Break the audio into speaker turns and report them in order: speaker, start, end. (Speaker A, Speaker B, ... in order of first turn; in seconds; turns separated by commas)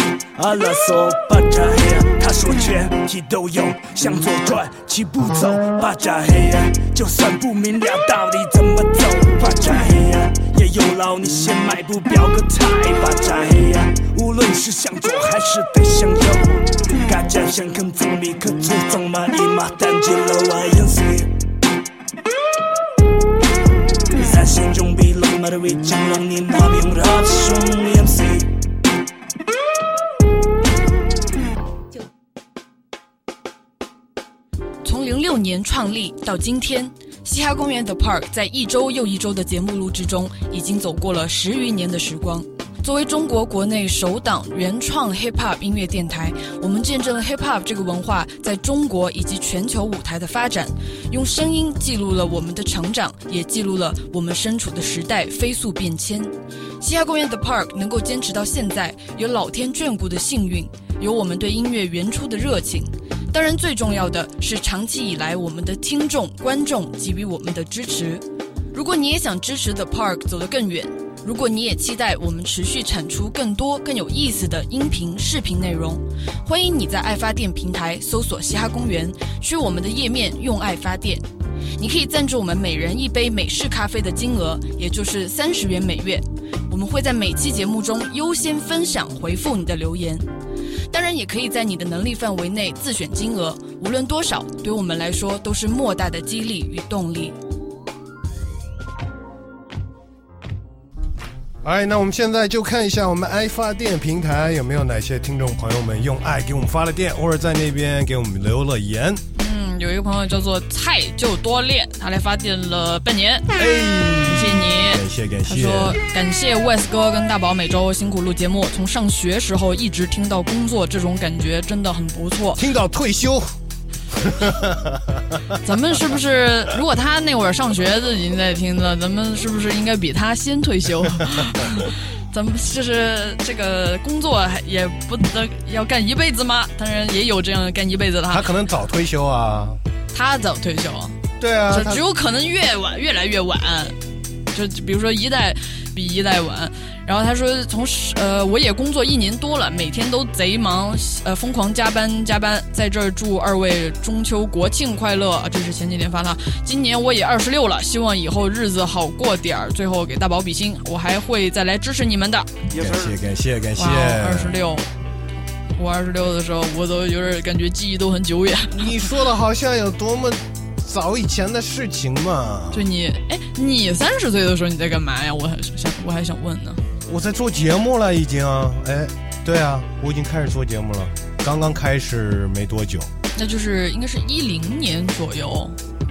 Speaker A: 0.4-21.3, Speaker A: 24.1-28.4, Speaker B: 34.8-81.2, Speaker B: 81.8-90.3, Speaker B: 90.9-97.3, Speaker C: 101.6-109.2, Speaker B: 109.3-113.5, Speaker C: 113.5-116.0, Speaker B: 114.2-122.6, Speaker C: 122.6-123.5, Speaker C: 124.1-125.6, Speaker B: 125.6-138.5, Speaker C: 138.3-139.8, Speaker B: 140.1-141.2, Speaker C: 141.4-142.0, Speaker B: 141.7-143.9, Speaker B: 144.5-162.9, Speaker C: 162.7-164.6, Speaker B: 163.8-164.9, Speaker B: 165.7-169.1, Speaker C: 168.8-172.8, Speaker B: 172.7-176.8, Speaker C: 177.1-183.1, Speaker B: 183.3-185.8